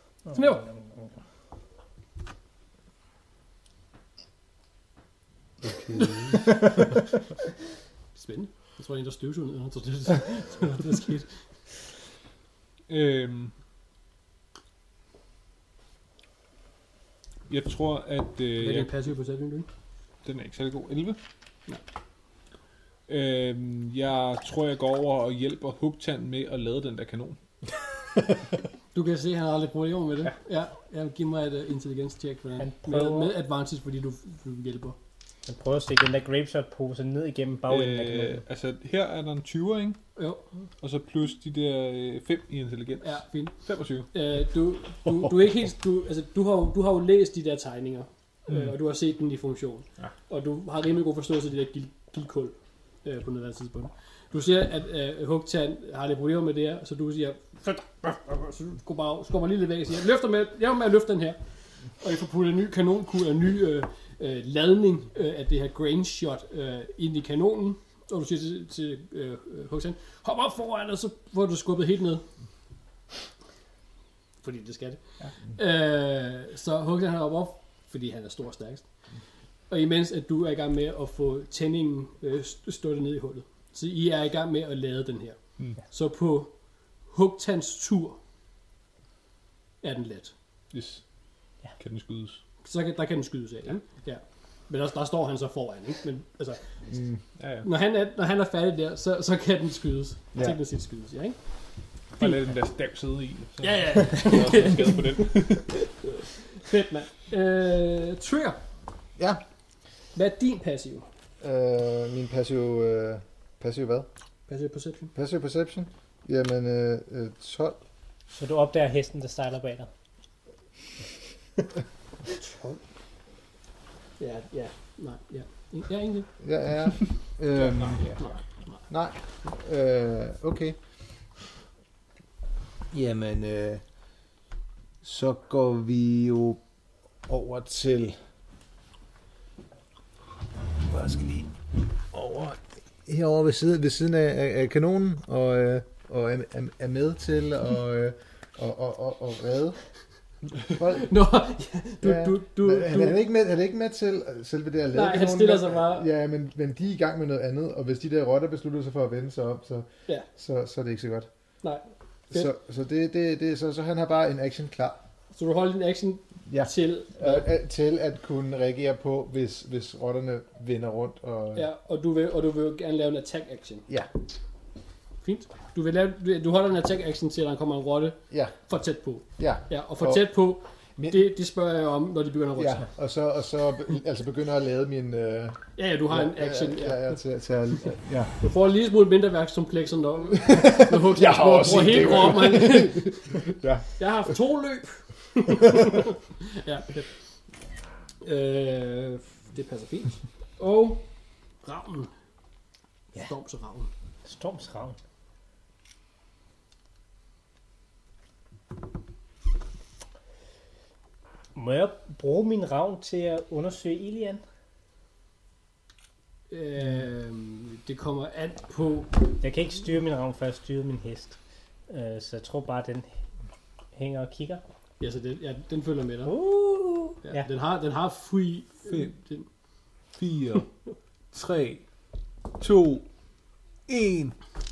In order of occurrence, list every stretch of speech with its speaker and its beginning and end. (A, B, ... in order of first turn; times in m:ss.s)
0:00.3-0:01.1 A
0:00.3-0:00.7 B
0:05.6-0:06.5 C
0:08.1-0:11.3 B
0:12.9-0:13.5 D
0:17.5-0:18.9 D
0:18.6-0:19.7 B
0:20.2-0:21.2 D
0:23.1-0:27.4 D
0:28.9-0:35.0 B
0:32.6-0:33.3 A
0:35.4-0:38.4 A
0:37.7-0:40.0 D
0:40.2-0:40.4 B
0:40.8-0:44.1 D
0:43.0-0:43.5 B
0:44.1-1:01.4 B
1:02.0-1:12.2 B
1:14.4-1:18.8 B
1:19.7-1:26.5 B
1:27.1-1:28.2 B
1:29.8-1:30.3 B
1:30.7-1:31.0 D
1:31.8-1:32.4 D
1:32.6-1:36.7 B
1:36.9-1:37.2 C
1:37.4-1:37.7 D
1:37.6-1:41.4 B
1:42.2-1:45.9 D
1:43.6-1:45.3 B
1:46.5-1:48.6 B
1:50.1-1:51.1 B
1:51.4-1:54.1 C
1:54.5-1:55.1 B
1:55.1-1:57.8 C
1:58.3-1:59.9 A
2:02.4-2:02.8 B
2:04.2-2:06.3 B
2:06.4-2:08.0 C
2:07.6-2:08.3 D
2:08.2-2:08.8 B
2:08.9-2:10.8 C
2:12.9-2:13.8 C
2:15.0-2:16.6 C
2:17.3-2:18.2 C
2:20.8-2:21.5 C
2:22.1-2:29.8 C
2:30.6-2:31.1 C
2:30.9-2:33.2 B
2:32.0-2:41.3 C
2:34.9-2:36.1 B
2:41.6-2:42.5 B
2:42.3-2:45.0 C
2:45.3-2:47.4 B
2:46.5-2:51.6 C
2:51.5-2:53.9 B
2:55.2-3:02.9 B
2:58.3-2:58.5 C
2:59.4-3:00.3 C
3:02.6-3:08.3 C
3:05.8-3:07.2 B
3:08.4-3:13.4 B
3:10.4-3:14.0 C
3:14.0-3:17.1 B
3:18.2-3:21.0 B
3:21.6-3:22.1 B
3:23.1-3:23.9 B
3:24.2-3:25.0 A
3:31.5-3:34.4 A
3:36.5-3:39.2 B
3:39.4-3:41.4 A
3:41.9-3:43.1 A
3:43.9-3:44.6 A
3:45.0-3:46.3 B
3:46.2-3:47.5 A
3:47.2-3:49.5 B
3:48.8-3:49.1 D
3:50.1-3:50.7 D
3:51.3-3:51.8 D
3:52.6-3:53.0 D
3:53.9-3:54.4 D